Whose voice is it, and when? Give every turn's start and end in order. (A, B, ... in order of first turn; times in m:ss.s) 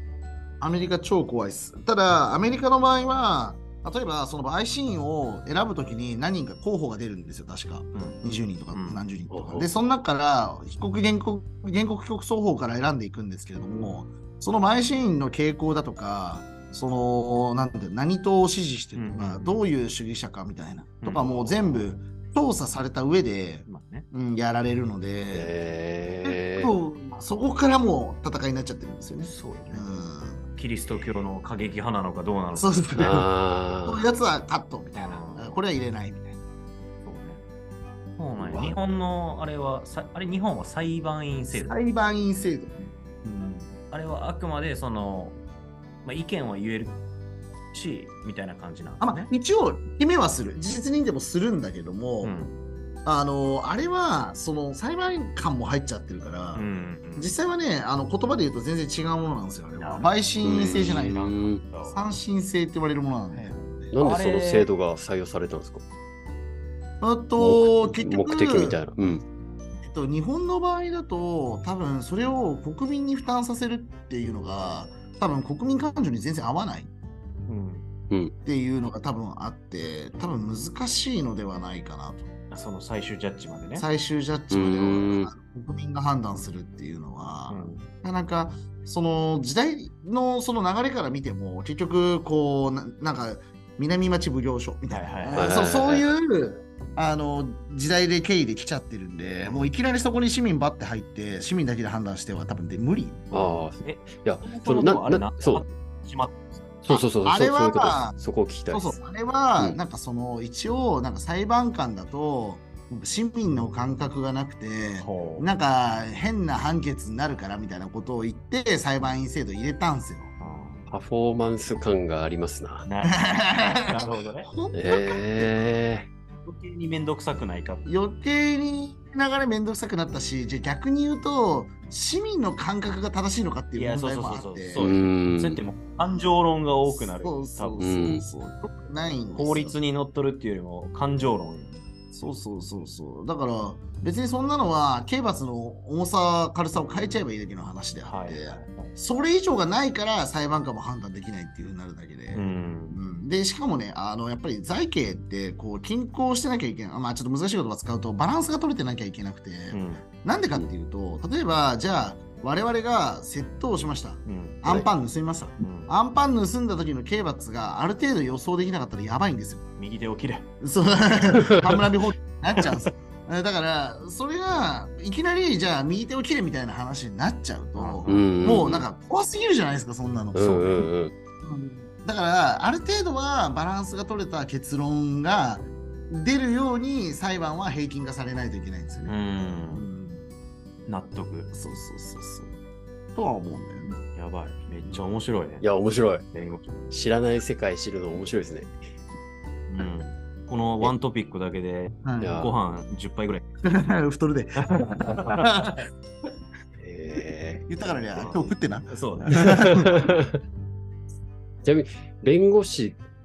0:00.6-0:25.5 A
0:07.9-0:08.2 B
0:08.7-0:09.0 B
0:09.3-0:09.6 C
0:18.9-0:19.6 B
0:21.0-0:22.0 B
0:23.6-0:24.1 B
0:25.3-0:26.7 C
0:26.2-0:30.5 A
0:29.2-0:29.9 B
0:30.5-0:32.8 B
0:32.5-0:33.3 A
0:33.0-0:34.0 C
0:33.8-0:36.4 A
0:34.9-0:35.6 B
0:37.0-0:37.4 B
0:38.2-0:41.8 B
0:38.4-0:38.8 C
0:41.5-0:42.9 A
0:43.2-0:45.4 B
0:46.0-0:47.0 B
0:47.7-0:49.3 B
0:49.0-0:52.4 A
0:52.2-0:52.6 B
0:53.0-1:01.2 A
0:56.5-0:57.3 B
0:59.8-1:02.0 B
1:00.4-1:01.6 C
1:01.9-1:03.9 A
1:03.9-1:05.8 C
1:04.0-1:04.7 B
1:07.0-1:08.8 A
1:07.4-1:09.2 C
1:09.8-1:16.9 A
1:17.5-1:17.9 B
1:18.4-1:22.3 A
1:22.5-1:23.9 B
1:23.7-1:43.6 A
1:24.5-1:25.3 C
1:27.5-1:27.9 B
1:34.9-1:35.6 B
1:35.3-1:36.1 C
1:43.3-1:45.6 C
1:43.8-1:46.7 B
1:46.8-1:49.0 C
1:46.9-1:48.2 A
1:48.7-2:00.3 A
1:55.0-1:55.5 B
2:00.4-2:00.9 B
2:00.9-2:02.9 C
2:02.8-2:04.5 B
2:03.1-2:05.6 A
2:04.7-2:06.1 C
2:06.4-2:07.9 B
2:07.8-2:14.9 A
2:13.7-2:18.0 B
2:14.8-2:15.6 C
2:16.9-2:19.8 A
2:17.8-2:18.2 C
2:19.3-2:21.8 B
2:22.1-2:49.6 A
2:26.8-2:27.2 B
2:28.0-2:28.9 B
2:32.3-2:33.0 B
2:39.7-2:40.0 B
2:44.2-2:44.6 B
2:45.6-2:45.9 B
2:49.8-2:50.5 B
2:50.6-3:00.9 A
2:57.8-2:58.3 B
2:58.1-2:58.8 C
3:00.3-3:01.1 C
3:01.4-3:09.2 A
3:09.0-3:09.9 B
3:09.7-3:10.2 A
3:10.8-3:11.5 B
3:11.5-3:12.5 A
3:13.1-3:14.0 A
3:14.1-3:15.6 B
3:15.6-3:16.2 C
3:16.3-3:16.7 B
3:16.9-3:18.8 C
3:19.7-3:23.6 B
3:22.0-3:22.4 A
3:22.2-3:22.5 C
3:23.6-3:25.7 A
3:24.6-3:25.9 B
3:26.8-3:28.5 C
3:27.7-3:30.0 A
3:28.9-3:29.4 B
3:29.6-3:30.4 C
3:31.6-3:33.0 C